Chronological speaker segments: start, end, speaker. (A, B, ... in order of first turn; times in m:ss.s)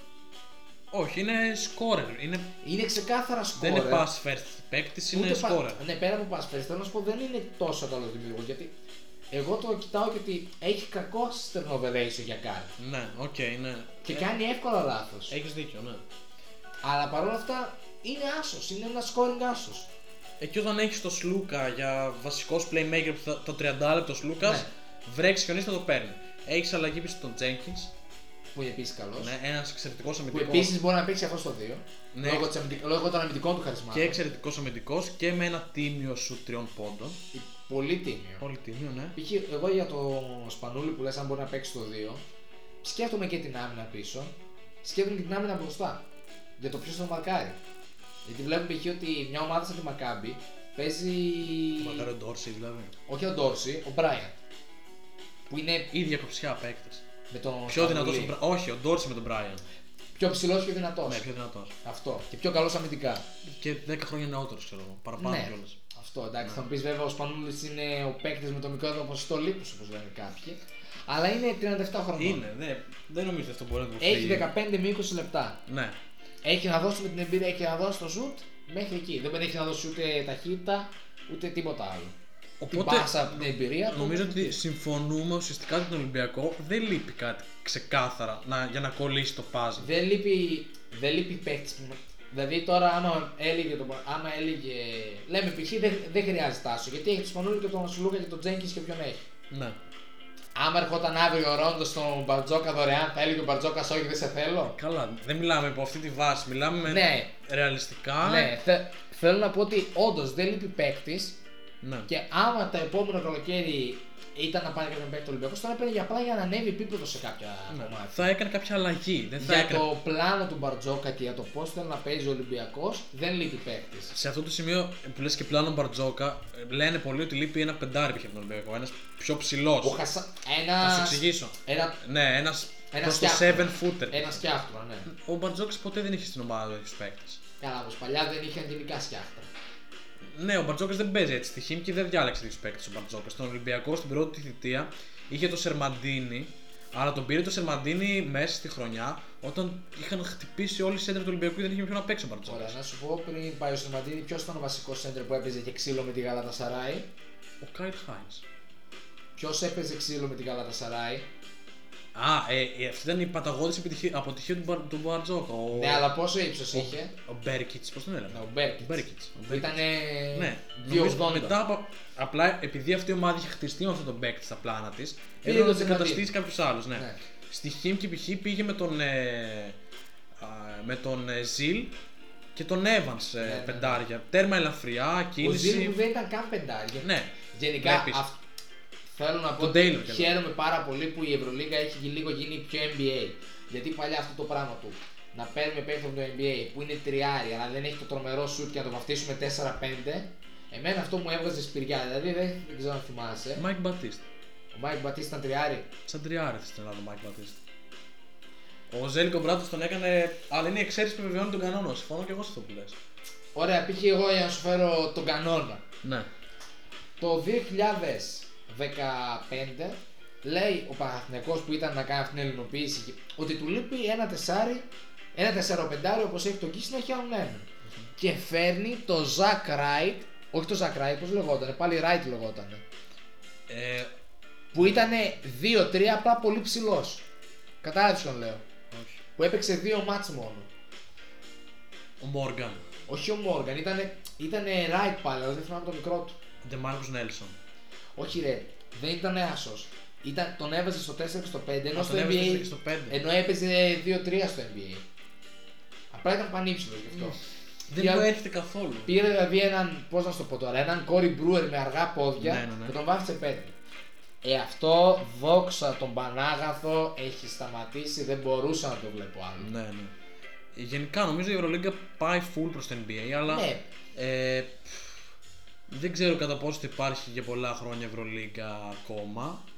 0:00.9-0:02.5 A
0:02.6-0:04.1 B
0:03.6-0:05.8 A
0:05.1-0:08.7 B
0:09.3-0:12.7 B
0:12.8-0:14.3 A
0:14.0-0:15.3 B
0:15.3-0:16.0 A
0:16.8-0:19.9 B
0:20.4-0:27.9 A
0:24.4-0:24.7 B
0:28.5-0:29.3 B
0:29.2-0:30.7 A
0:30.3-0:34.2 B
0:32.1-0:32.5 A
0:33.9-0:37.2 A
0:37.3-0:38.4 B
0:38.4-0:39.2 A
0:39.1-0:42.2 B
0:42.8-0:46.0 B
0:46.6-0:47.6 B
0:48.2-0:52.1 B
0:51.8-0:52.9 A
0:53.1-0:54.3 B
0:55.5-0:55.9 B
0:55.9-0:57.0 A
0:57.3-0:58.3 B
0:57.7-0:59.6 A
1:00.2-1:01.2 B
1:01.0-1:01.7 A
1:01.8-1:03.2 B
1:03.4-1:05.8 A
1:05.2-1:12.4 B
1:12.2-1:14.5 A
1:14.0-1:15.6 B
1:15.7-1:16.0 A
1:16.4-1:22.1 B
1:22.6-1:29.9 A
1:22.7-1:24.6 B
1:29.8-1:39.2 B
1:39.5-1:39.8 A
1:40.6-1:44.8 B
1:44.7-1:48.5 A
1:46.9-1:47.3 B
1:48.2-1:51.4 B
1:51.8-1:52.1 A
1:52.1-1:58.3 B
1:57.7-1:59.9 A
1:59.4-2:04.1 B
2:04.1-2:10.0 A
2:09.8-2:12.0 B
2:10.8-2:14.4 A
2:12.9-2:15.1 B
2:15.1-2:17.4 A
2:17.6-2:19.5 B
2:20.2-2:32.8 A
2:32.5-2:37.1 B
2:37.6-2:38.4 A
2:39.4-2:41.2 B
2:42.1-2:46.1 A
2:45.7-2:47.1 B
2:46.7-2:59.8 A
2:48.3-2:51.6 B
2:55.4-2:56.3 B
2:56.9-2:57.2 B
3:00.4-3:01.9 A
3:02.5-3:06.0 A
3:03.4-3:04.0 B
3:05.4-3:08.4 B
3:07.0-3:08.2 A
3:09.1-3:23.6 B
3:09.6-3:10.3 A
3:23.6-3:24.2 A
3:24.7-3:25.9 B
3:26.0-3:27.6 A
3:28.9-3:33.0 A
3:33.5-3:35.8 B
3:36.0-3:36.3 A
3:37.2-3:52.8 B
3:53.7-3:54.1 A
3:54.7-3:57.2 B
3:57.8-3:58.6 B
3:58.9-3:59.2 A
3:59.4-4:00.7 B
4:02.2-4:02.8 A
4:03.1-4:06.4 B
4:06.6-4:07.6 A
4:08.2-4:15.0 B
4:11.9-4:13.2 A
4:16.1-4:17.4 B
4:17.9-4:19.1 A
4:17.9-4:18.3 B
4:19.0-4:23.7 B
4:22.4-4:23.0 A
4:24.4-4:29.7 B
4:29.6-4:30.1 A
4:30.7-4:35.2 A
4:33.5-4:33.9 B
4:35.9-4:39.6 A